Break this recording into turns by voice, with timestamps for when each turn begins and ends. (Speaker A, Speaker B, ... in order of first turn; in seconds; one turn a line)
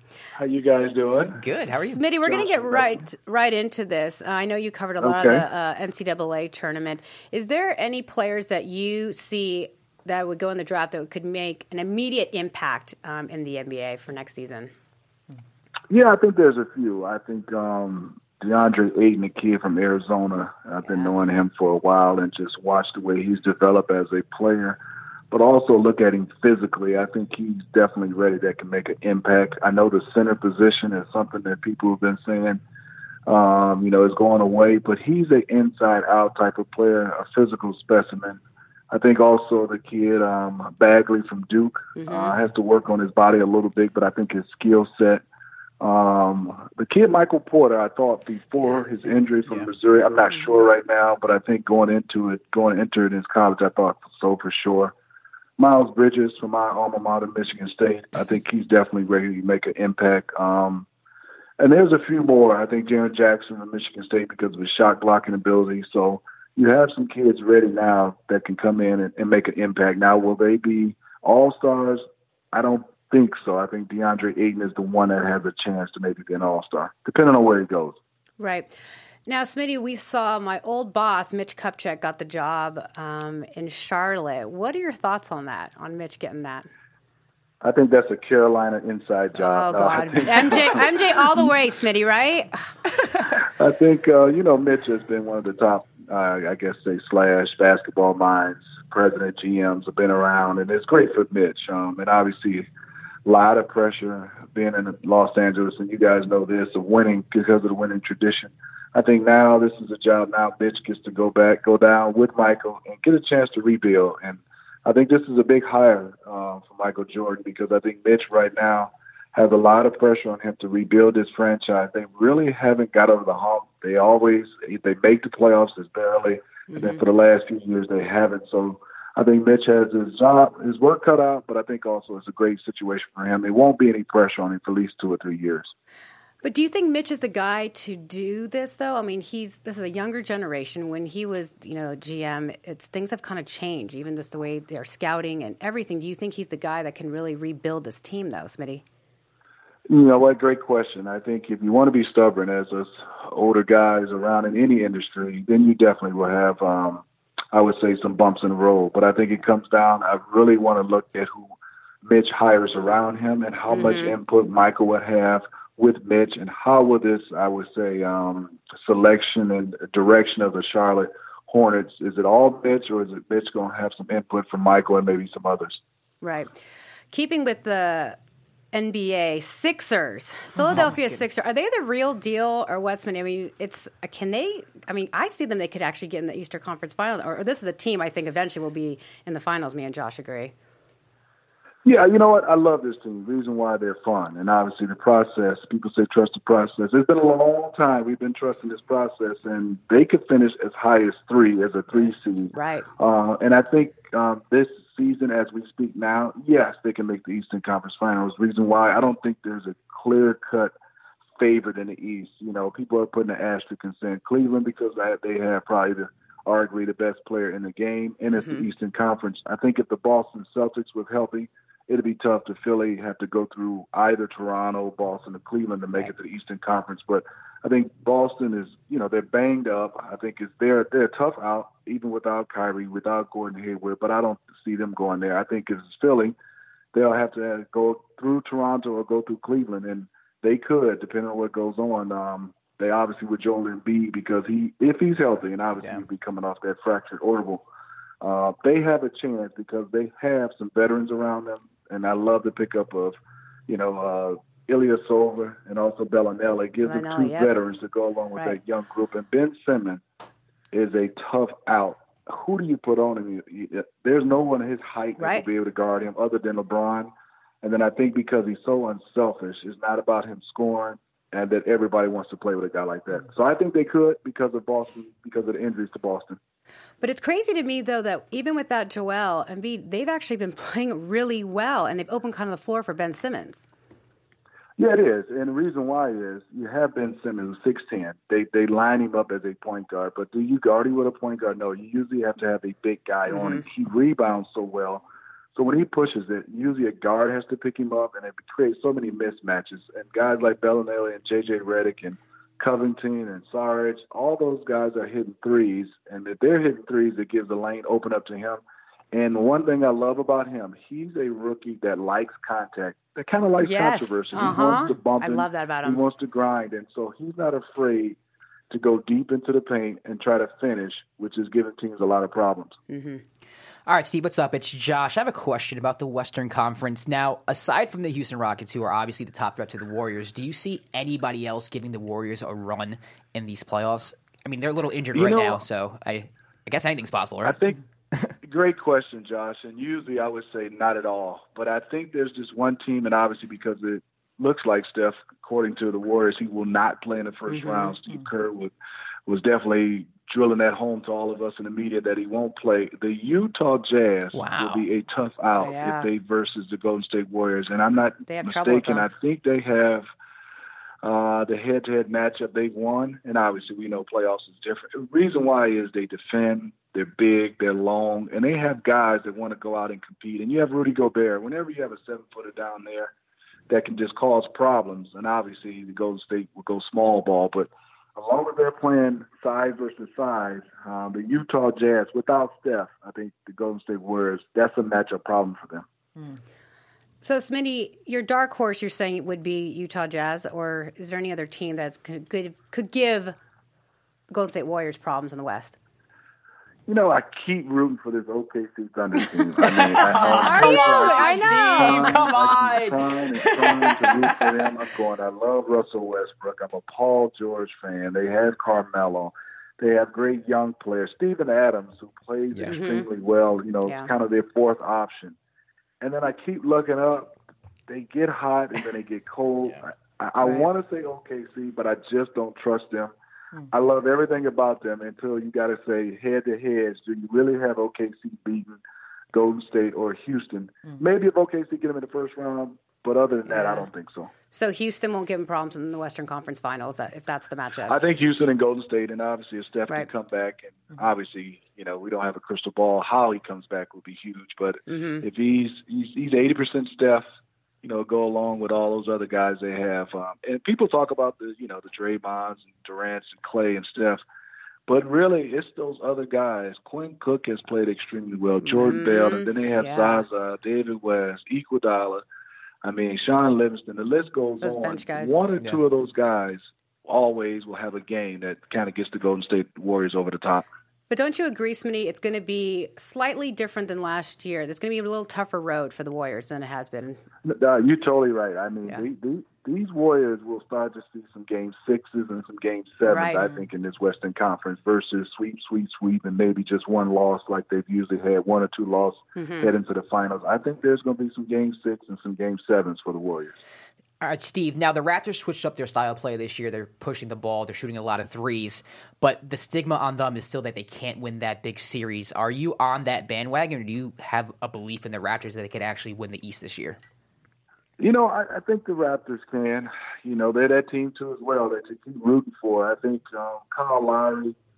Speaker A: 0.4-1.4
Speaker B: 1.4-2.0
Speaker C: 1.7-14.7
Speaker A: 2.2-3.0
Speaker A: 5.0-5.4
Speaker A: 15.9-24.8
Speaker A: 25.3-32.6
Speaker A: 33.2-38.4
Speaker A: 38.9-45.2
Speaker C: 42.0-42.4
Speaker A: 45.8-54.9
Speaker A: 55.6-60.9
Speaker A: 61.6-78.0
Speaker C: 78.4-78.7
Speaker C: 79.3-86.7
Speaker A: 87.6-91.5
Speaker C: 89.4-92.7
Speaker A: 93.3-102.7
Speaker A: 103.2-135.7
Speaker C: 126.7-127.0
Speaker C: 136.4-148.8
Speaker A: 149.9-161.5
Speaker A: 162.0-175.8
Speaker C: 163.7-164.2
Speaker C: 176.2-176.5
Speaker C: 177.1-178.2
Speaker C: 178.7-190.5
Speaker B: 180.6-181.1
Speaker A: 191.8-210.7
Speaker C: 201.9-202.9
Speaker A: 211.4-236.3
Speaker C: 218.4-218.7
Speaker A: 236.9-247.6
Speaker A: 248.2-253.2
Speaker A: 253.7-260.0
Speaker C: 256.8-257.5
Speaker A: 260.7-267.1
Speaker C: 265.2-265.4
Speaker A: 267.6-276.4
Speaker C: 277.0-283.6
Speaker A: 284.8-295.0
Speaker C: 293.3-293.6
Speaker A: 295.5-308.6
Speaker A: 309.1-318.2
Speaker C: 313.6-316.0
Speaker A: 318.7-322.8
Speaker C: 322.9-323.2
Speaker B: 323.9-337.6
Speaker A: 335.1-335.6
Speaker A: 337.4-337.8
Speaker A: 338.4-348.7
Speaker C: 347.5-347.9
Speaker A: 349.3-360.1
Speaker B: 354.3-354.8
Speaker C: 355.5-356.1
Speaker C: 358.3-359.1
Speaker A: 361.0-373.1
Speaker A: 373.7-385.8
Speaker C: 387.2-393.3
Speaker C: 394.3-395.8
Speaker A: 396.9-415.4
Speaker B: 399.6-404.7
Speaker C: 400.2-402.3
Speaker C: 412.6-413.1
Speaker A: 416.0-417.3
Speaker A: 417.9-423.1
Speaker C: 420.4-420.7
Speaker A: 423.7-428.8
Speaker A: 429.3-434.3
Speaker C: 433.5-433.9
Speaker C: 434.5-437.9
Speaker A: 437.9-447.2
Speaker C: 444.9-445.2
Speaker A: 447.8-454.2
Speaker A: 454.9-462.2
Speaker C: 458.6-460.2
Speaker A: 462.8-470.6
Speaker C: 464.6-465.3
Speaker C: 471.1-477.2
Speaker A: 477.4-493.5
Speaker C: 483.1-483.6
Speaker C: 489.4-489.7
Speaker B: 494.2-507.0
Speaker A: 508.0-514.5